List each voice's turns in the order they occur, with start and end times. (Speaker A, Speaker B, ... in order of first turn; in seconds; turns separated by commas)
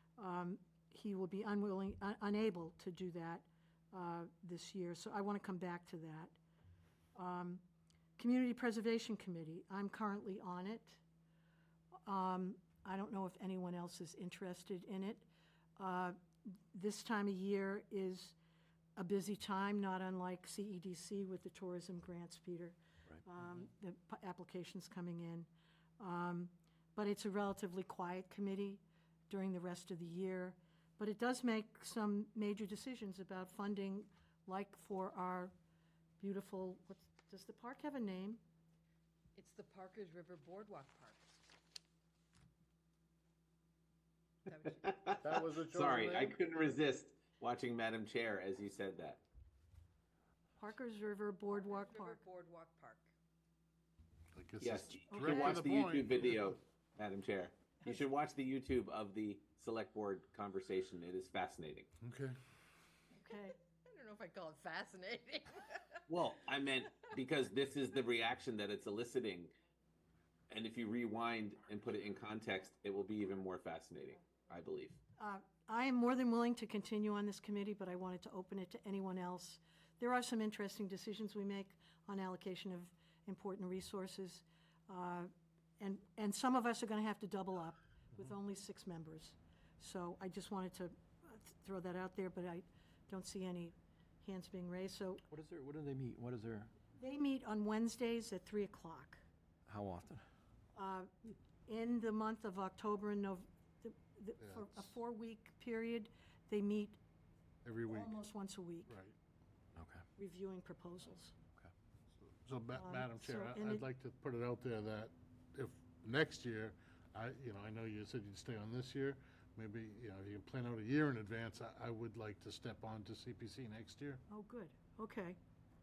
Speaker A: 0.2-6.3, Speaker A: 7.2-7.6, Speaker A: 8.2-11.0, Speaker A: 12.1-18.3, Speaker A: 19.0-25.5, Speaker A: 26.0-35.5, Speaker A: 36.2-38.4, Speaker B: 39.3-41.4, Speaker B: 44.5-45.1, Speaker C: 44.8-49.2, Speaker D: 45.2-46.4, Speaker A: 50.6-52.2, Speaker B: 51.5-53.1, Speaker D: 54.3-56.6, Speaker C: 54.6-61.9, Speaker A: 55.1-55.6, Speaker D: 62.0-62.4, Speaker A: 63.2-63.5, Speaker B: 63.8-66.0, Speaker C: 66.1-69.5, Speaker C: 70.5-75.0, Speaker A: 75.2-85.3, Speaker A: 85.8-95.2, Speaker E: 95.3-96.7, Speaker A: 96.9-99.2, Speaker E: 99.7-100.2, Speaker A: 100.8-107.0, Speaker D: 104.4-104.9, Speaker D: 107.7-108.2, Speaker A: 107.9-108.9, Speaker D: 108.9-109.2, Speaker E: 109.8-110.0, Speaker A: 110.2-111.3, Speaker D: 112.2-124.2, Speaker A: 112.8-113.8, Speaker A: 124.3-125.4